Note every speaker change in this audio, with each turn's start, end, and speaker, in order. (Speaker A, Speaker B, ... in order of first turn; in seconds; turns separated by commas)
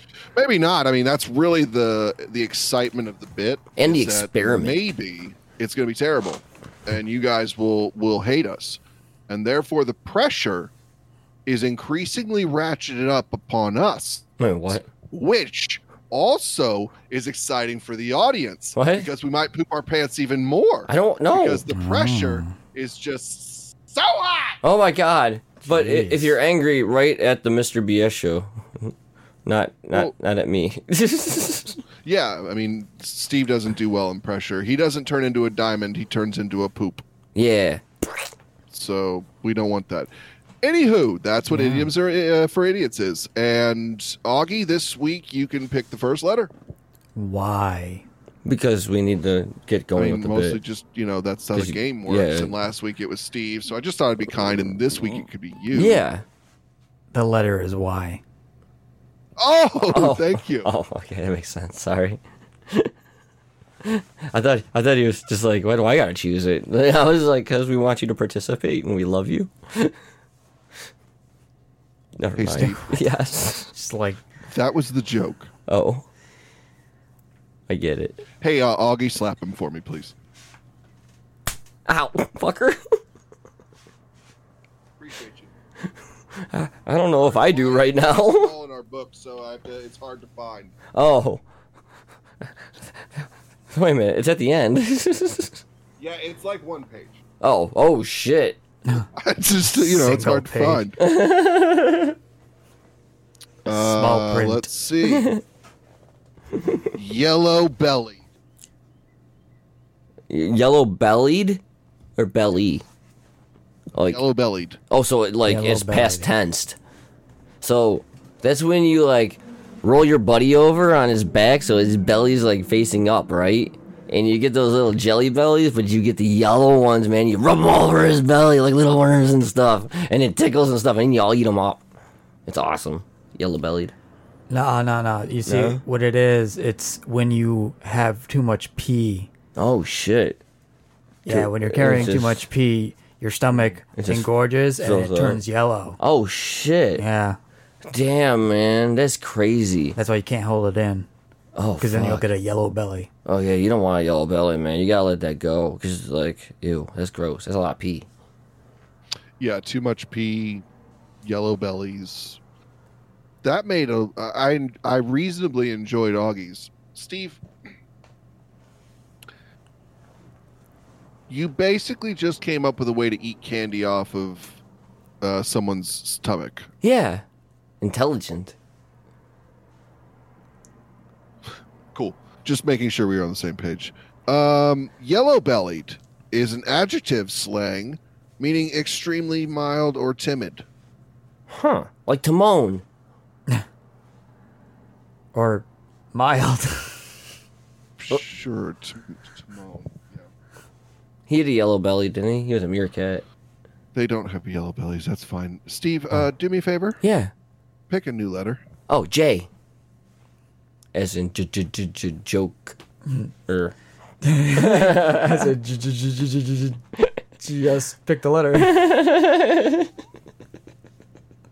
Speaker A: 0.3-10.7, Speaker B: 3.8-4.8, Speaker A: 11.5-24.6, Speaker B: 14.4-14.9, Speaker B: 18.8-19.1, Speaker B: 20.9-21.6, Speaker C: 21.7-22.6, Speaker B: 24.6-28.9, Speaker C: 25.7-26.3, Speaker B: 29.5-31.8, Speaker A: 32.0-37.0, Speaker B: 37.4-37.8, Speaker A: 38.7-40.1, Speaker A: 40.6-46.5, Speaker C: 41.5-41.9, Speaker C: 47.2-48.0, Speaker B: 48.5-50.6, Speaker A: 50.0-56.0, Speaker B: 51.5-52.5, Speaker B: 55.7-56.2, Speaker C: 57.1-58.2, Speaker A: 59.4-60.7, Speaker B: 59.9-62.9, Speaker B: 63.8-69.9, Speaker B: 72.2-73.7, Speaker A: 72.4-72.9, Speaker C: 73.7-74.2, Speaker A: 74.5-75.5, Speaker B: 75.7-76.0, Speaker B: 77.7-78.2, Speaker A: 78.4-80.2, Speaker B: 81.9-83.0, Speaker A: 85.0-85.5, Speaker B: 86.5-88.5, Speaker A: 87.2-90.8, Speaker B: 90.9-91.4, Speaker B: 93.7-95.6, Speaker A: 96.0-97.2, Speaker B: 97.4-98.6, Speaker A: 99.2-101.0, Speaker C: 99.7-100.9, Speaker B: 101.0-102.2, Speaker A: 103.7-105.3, Speaker C: 103.7-104.7, Speaker B: 105.0-105.4, Speaker A: 106.9-108.2, Speaker B: 110.3-111.6, Speaker B: 112.2-112.8, Speaker B: 113.9-114.2, Speaker A: 114.0-114.8, Speaker B: 114.9-116.8, Speaker C: 115.5-116.3, Speaker B: 117.6-131.8, Speaker B: 132.5-133.9, Speaker C: 134.5-139.3, Speaker B: 135.5-135.8, Speaker B: 139.6-140.4, Speaker C: 141.3-146.0, Speaker B: 141.3-142.4, Speaker B: 144.0-145.4, Speaker B: 146.0-147.0, Speaker C: 147.0-147.4, Speaker B: 147.8-150.0, Speaker C: 150.0-151.1, Speaker B: 151.6-152.3, Speaker C: 151.8-153.1, Speaker B: 153.2-158.1, Speaker A: 159.4-160.7, Speaker A: 161.2-162.4, Speaker A: 163.4-167.4, Speaker A: 171.3-174.6, Speaker A: 175.2-176.7, Speaker B: 176.8-177.2, Speaker B: 177.8-178.6, Speaker A: 181.9-190.7, Speaker B: 191.5-192.8, Speaker C: 195.3-197.2, Speaker A: 198.0-200.3, Speaker B: 201.3-203.2, Speaker A: 203.9-207.0, Speaker B: 207.0-207.3, Speaker A: 207.9-208.6, Speaker B: 208.9-209.5, Speaker B: 210.9-212.8, Speaker B: 213.5-213.7, Speaker C: 214.2-216.8, Speaker B: 214.6-215.5, Speaker C: 217.4-218.8, Speaker B: 218.6-219.9